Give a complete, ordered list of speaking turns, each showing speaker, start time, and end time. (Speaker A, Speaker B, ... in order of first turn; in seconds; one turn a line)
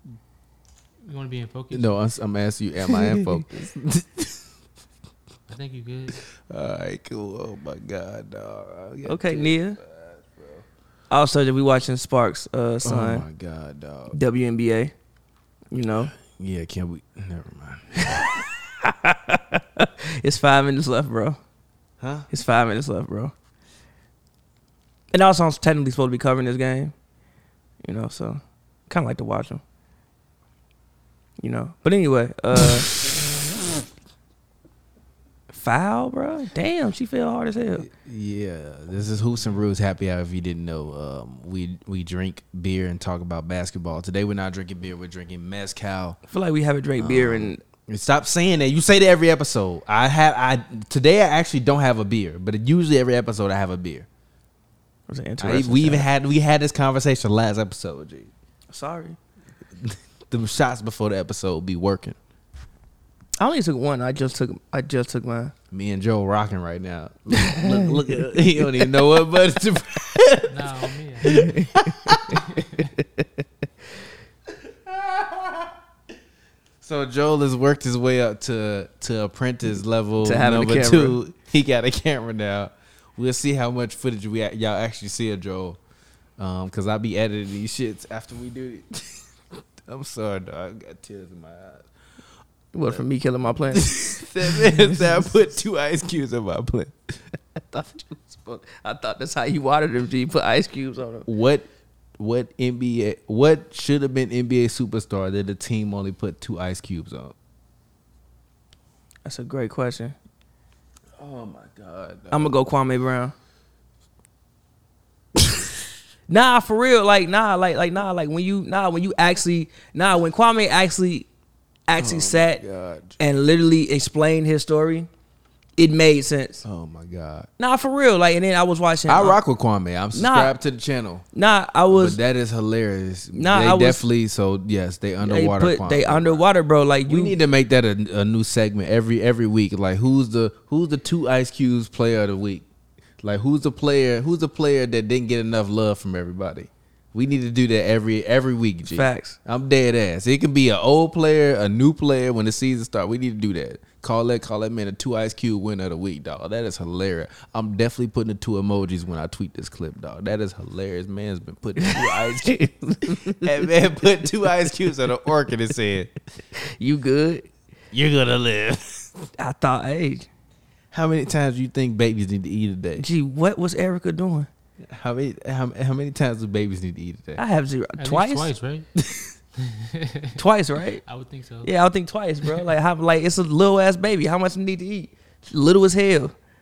Speaker A: 1.0-2.0
Speaker B: 1.7-4.5
Speaker A: 5.5-6.2
Speaker B: 6.3-10.6
Speaker C: 9.0-9.8
Speaker C: 11.1-13.2
Speaker B: 12.8-14.2
Speaker C: 14.1-14.9
Speaker C: 15.7-16.1
Speaker B: 16.1-18.3
Speaker C: 18.0-21.4
Speaker B: 22.0-22.3
Speaker C: 22.3-23.3
Speaker C: 25.1-26.9
Speaker C: 27.8-29.6
Speaker C: 31.4-32.9
Speaker C: 35.5-37.9
Speaker B: 37.8-46.2
Speaker C: 46.3-47.6
Speaker B: 47.0-54.1
Speaker C: 55.1-56.1
Speaker B: 55.4-58.3
Speaker C: 58.7-59.2
Speaker B: 59.8-62.2
Speaker C: 63.4-65.5
Speaker B: 65.7-72.6
Speaker C: 67.3-68.8
Speaker A: 70.5-71.5
Speaker C: 71.2-72.4
Speaker A: 72.5-72.8
Speaker B: 74.9-75.7
Speaker B: 76.8-85.8
Speaker C: 80.2-81.2
Speaker B: 86.4-89.2
Speaker B: 89.8-91.9
Speaker C: 92.7-94.0
Speaker B: 93.7-97.2
Speaker C: 97.5-101.3
Speaker B: 101.2-101.7
Speaker B: 102.2-107.3
Speaker C: 109.2-110.1
Speaker B: 111.2-112.5
Speaker C: 112.3-113.3
Speaker C: 116.3-121.3
Speaker C: 121.9-122.6
Speaker B: 122.0-123.2
Speaker C: 123.2-125.1
Speaker C: 125.8-126.6
Speaker B: 126.6-127.5
Speaker C: 127.6-129.4
Speaker B: 129.1-131.2
Speaker C: 130.1-130.5
Speaker C: 131.3-132.2
Speaker B: 131.9-136.4
Speaker C: 133.3-134.0
Speaker C: 135.2-137.3
Speaker B: 137.1-142.7
Speaker B: 143.2-166.1
Speaker C: 148.9-149.4
Speaker C: 161.8-163.7
Speaker C: 166.5-167.5
Speaker B: 167.9-169.3
Speaker C: 169.4-170.3
Speaker B: 170.9-173.0
Speaker C: 173.0-174.5
Speaker B: 174.8-177.4
Speaker C: 177.3-178.5
Speaker A: 178.0-178.9
Speaker B: 179.0-179.3
Speaker A: 179.6-180.4
Speaker C: 180.3-181.0
Speaker A: 181.0-181.7
Speaker C: 181.6-186.3